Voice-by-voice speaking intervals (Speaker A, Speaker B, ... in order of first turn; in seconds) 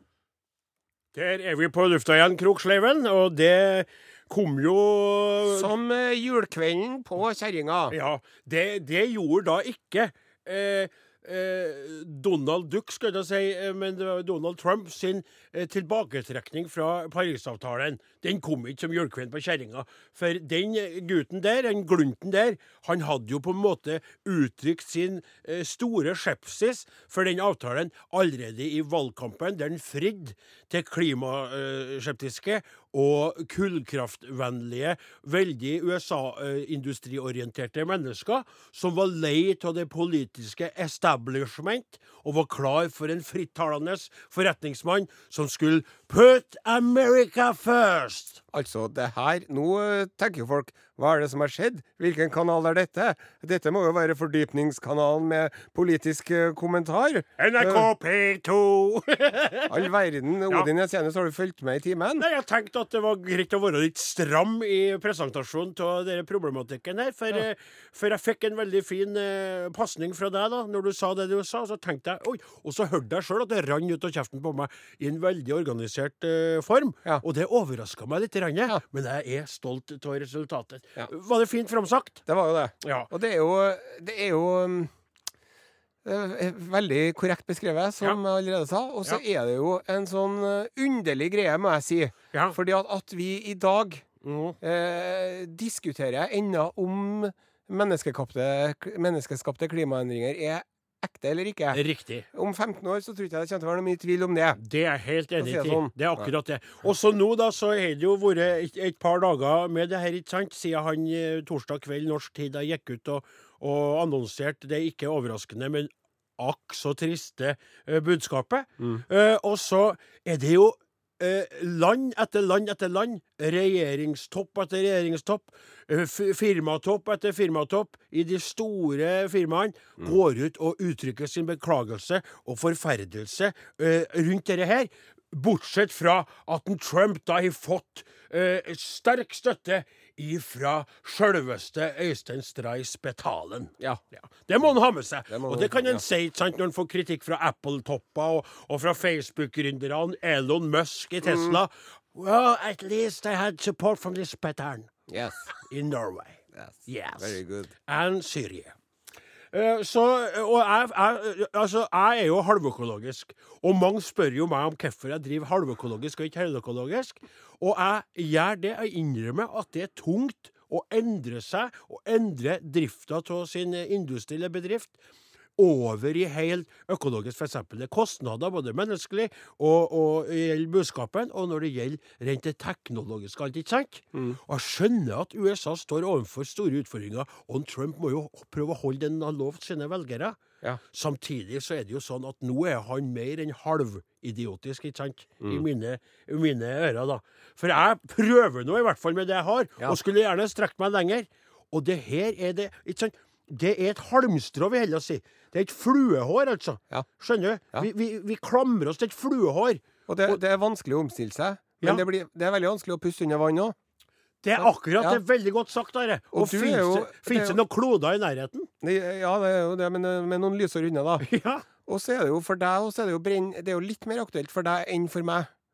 Speaker A: 1.1-5.7, 7.9-48.4, 57.4-59.9, 62.2-82.2, 82.8-83.1, 94.2-94.6, 101.7-102.3, 104.6-154.9, 155.6-158.8, 159.5-175.0, 175.6-190.4, 190.9-210.4, 214.4-218.7, 221.2-221.7
Speaker B: 5.5-8.0, 48.5-57.9, 59.7-62.3, 82.3-84.9, 86.0-94.0, 94.6-101.8, 102.3-104.6, 105.4-106.3, 145.3-146.0, 151.2-151.6, 155.1-155.5, 156.5-157.7, 184.1-184.4, 210.1-213.8, 214.6-215.2, 216.3-217.6, 218.8-221.3, 221.9-225.5